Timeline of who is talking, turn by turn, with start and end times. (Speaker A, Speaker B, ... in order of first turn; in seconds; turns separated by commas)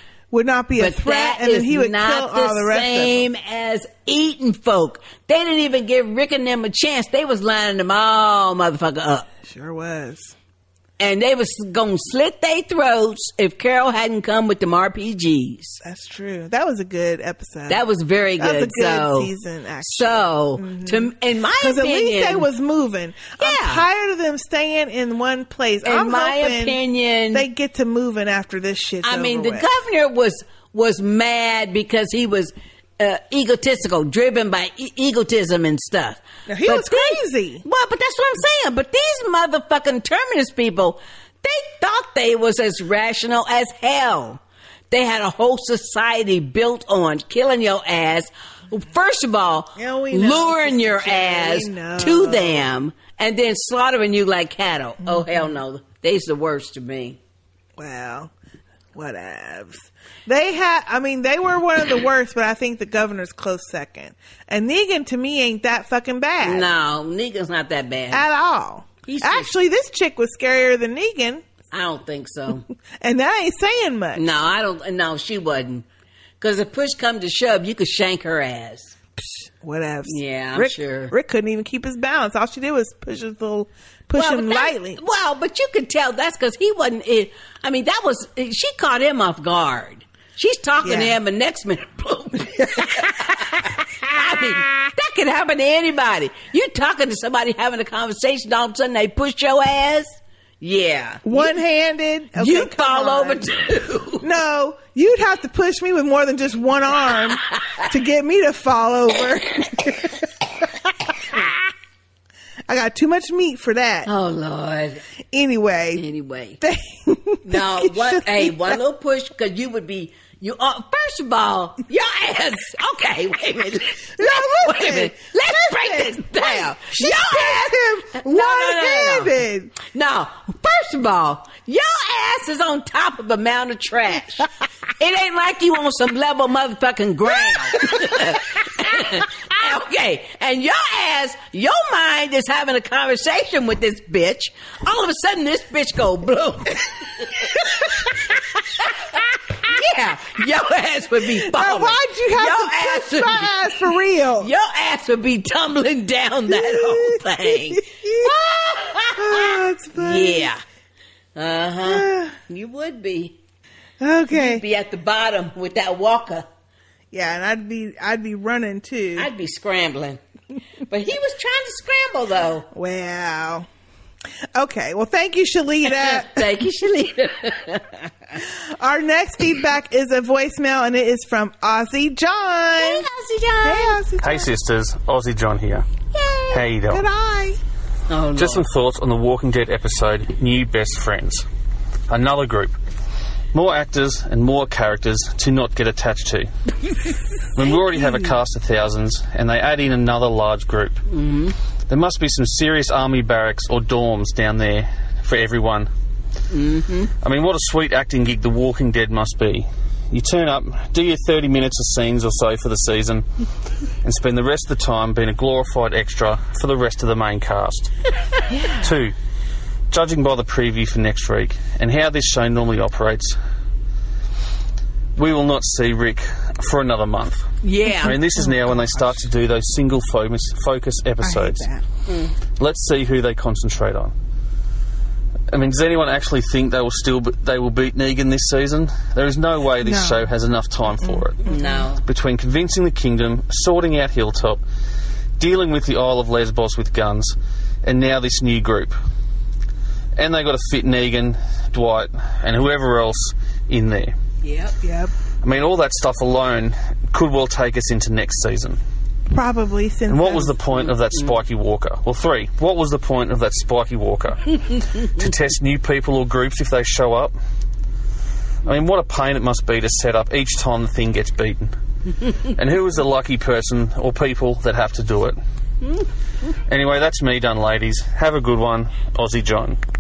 Speaker A: 0.3-3.3, Speaker B: 0.8-9.3, Speaker A: 9.4-10.3, Speaker B: 11.0-15.8, Speaker A: 15.8-17.8, Speaker B: 17.7-19.3, Speaker A: 18.4-26.8, Speaker B: 19.8-22.5, Speaker B: 23.4-23.8, Speaker B: 25.9-27.4, Speaker A: 27.3-29.7, Speaker B: 29.0-57.2, Speaker A: 36.5-37.6, Speaker A: 49.8-52.7, Speaker A: 55.0-55.5, Speaker A: 57.8-58.3, Speaker A: 59.0-66.7, Speaker B: 66.4-68.2, Speaker A: 68.1-71.5, Speaker B: 69.0-69.5, Speaker B: 71.7-72.6, Speaker A: 73.0-74.3, Speaker B: 74.2-75.9, Speaker B: 76.4-78.9, Speaker A: 79.2-85.0, Speaker B: 80.1-81.1, Speaker B: 84.2-101.5, Speaker A: 90.8-91.2, Speaker A: 101.3-103.5, Speaker B: 102.4-104.2, Speaker A: 104.2-110.2, Speaker A: 112.7-114.1, Speaker B: 114.1-115.0, Speaker A: 115.3-116.0, Speaker B: 116.0-116.6, Speaker A: 116.6-118.8, Speaker B: 117.5-134.5, Speaker A: 124.2-129.8, Speaker B: 135.0-148.9, Speaker A: 137.4-138.3, Speaker B: 149.6-153.5, Speaker A: 151.4-154.5, Speaker B: 154.4-160.6, Speaker A: 156.5-158.3, Speaker A: 159.2-160.5, Speaker B: 161.4-163.4, Speaker A: 161.8-162.3, Speaker A: 164.0-164.6, Speaker B: 164.3-166.5, Speaker A: 167.1-169.3, Speaker B: 169.2-170.2, Speaker B: 170.9-172.7, Speaker A: 172.7-173.7, Speaker A: 174.6-176.4, Speaker B: 175.8-178.1, Speaker A: 178.8-183.1, Speaker B: 182.8-184.0, Speaker A: 183.6-184.5, Speaker C: 184.2-185.9, Speaker B: 186.1-186.6, Speaker C: 186.5-187.1, Speaker A: 186.9-187.6, Speaker B: 188.1-188.7, Speaker C: 188.4-191.5, Speaker C: 192.1-192.7, Speaker C: 193.5-196.5, Speaker C: 197.6-201.0, Speaker A: 197.8-198.3, Speaker B: 201.1-201.6, Speaker C: 201.9-205.9, Speaker B: 206.5-207.1, Speaker C: 207.2-213.2, Speaker C: 214.0-217.9, Speaker C: 218.8-219.2, Speaker C: 219.9-223.4, Speaker C: 225.2-227.5, Speaker B: 227.6-228.2, Speaker C: 228.0-231.7, Speaker A: 228.1-229.2, Speaker A: 231.2-231.8, Speaker B: 232.1-232.3, Speaker C: 232.6-234.1, Speaker C: 235.5-241.4, Speaker A: 239.8-240.3, Speaker A: 241.0-241.9, Speaker B: 241.4-242.0, Speaker C: 242.1-244.6, Speaker C: 245.4-249.0, Speaker C: 250.2-254.1, Speaker B: 254.4-254.8, Speaker A: 254.8-255.1, Speaker C: 255.4-258.8, Speaker A: 259.3-260.5, Speaker C: 260.1-264.5, Speaker C: 265.2-267.3, Speaker C: 268.6-271.8, Speaker C: 272.6-275.4, Speaker C: 276.7-279.8